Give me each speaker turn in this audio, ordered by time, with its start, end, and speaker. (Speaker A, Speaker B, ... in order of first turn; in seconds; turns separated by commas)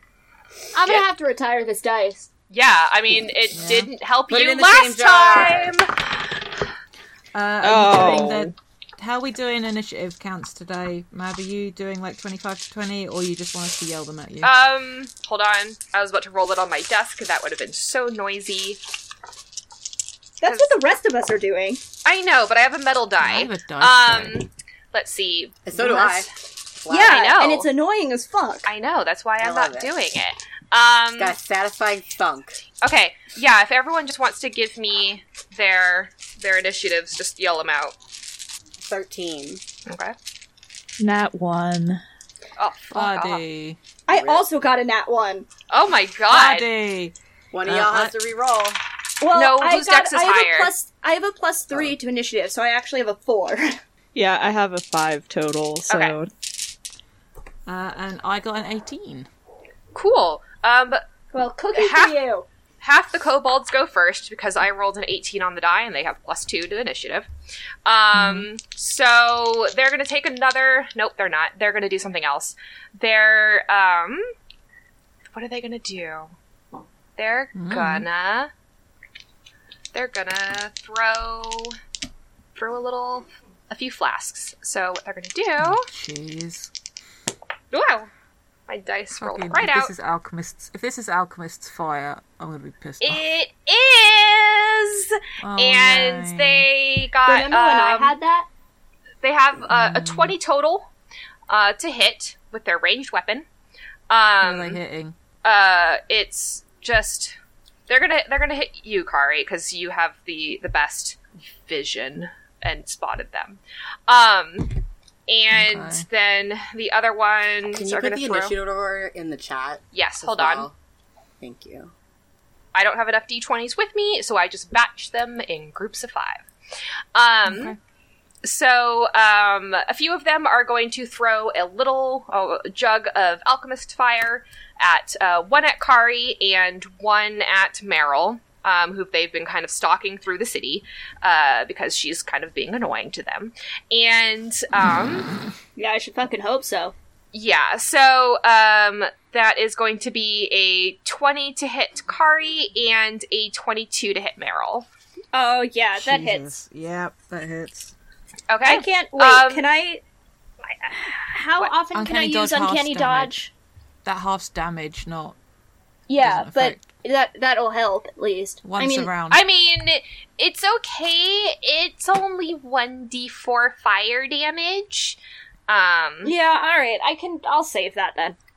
Speaker A: 0.7-2.3, Speaker B: 2.5-6.1, Speaker C: 3.5-3.9, Speaker D: 4.3-5.8, Speaker C: 7.3-14.5, Speaker B: 7.7-8.5, Speaker B: 14.4-18.8, Speaker A: 20.4-21.8, Speaker B: 20.4-20.7, Speaker B: 22.0-26.3, Speaker C: 23.2-24.4, Speaker D: 25.7-27.3, Speaker A: 26.9-28.7, Speaker B: 27.0-27.7, Speaker B: 28.6-31.3, Speaker D: 29.4-29.9, Speaker D: 31.2-32.6, Speaker B: 32.8-38.0, Speaker D: 38.8-39.6, Speaker B: 39.9-40.1, Speaker E: 41.0-42.0, Speaker B: 42.6-43.4, Speaker C: 42.9-43.8, Speaker A: 44.1-45.5, Speaker D: 44.1-44.5, Speaker B: 45.7-46.7, Speaker C: 46.3-48.1, Speaker D: 47.5-48.8, Speaker A: 49.2-53.8, Speaker B: 49.3-50.7, Speaker E: 54.1-56.3, Speaker B: 55.9-56.2, Speaker C: 57.7-59.3, Speaker B: 59.9-61.0, Speaker A: 61.3-62.5, Speaker B: 61.7-62.2, Speaker B: 62.8-67.3, Speaker B: 67.9-74.3, Speaker C: 68.1-68.5, Speaker B: 75.3-76.3, Speaker B: 77.2-78.5, Speaker C: 77.5-78.1, Speaker B: 79.9-81.8, Speaker B: 82.6-85.9, Speaker C: 85.6-86.7, Speaker B: 87.7-88.1, Speaker B: 88.7-89.9, Speaker C: 89.2-93.2, Speaker B: 93.0-98.2, Speaker C: 95.4-96.7, Speaker A: 97.3-98.5, Speaker B: 99.2-100.9, Speaker C: 99.7-100.4, Speaker B: 101.5-103.5, Speaker B: 104.1-104.8, Speaker C: 104.4-105.2, Speaker B: 105.4-107.4, Speaker B: 107.9-118.5, Speaker C: 115.5-116.1, Speaker D: 117.7-120.8, Speaker B: 119.9-120.7, Speaker D: 121.4-121.9, Speaker B: 122.8-126.5, Speaker B: 127.2-127.8, Speaker C: 127.5-127.8, Speaker B: 128.4-145.3, Speaker A: 145.8-146.9, Speaker B: 147.3-154.9, Speaker A: 155.3-156.5, Speaker C: 156.0-157.9, Speaker B: 158.5-159.7, Speaker A: 158.7-160.0, Speaker A: 160.6-163.5, Speaker C: 161.9-163.3, Speaker C: 164.1-165.4, Speaker A: 166.1-169.1, Speaker C: 166.2-166.8, Speaker C: 168.6-169.4, Speaker B: 169.3-176.3, Speaker A: 176.2-178.4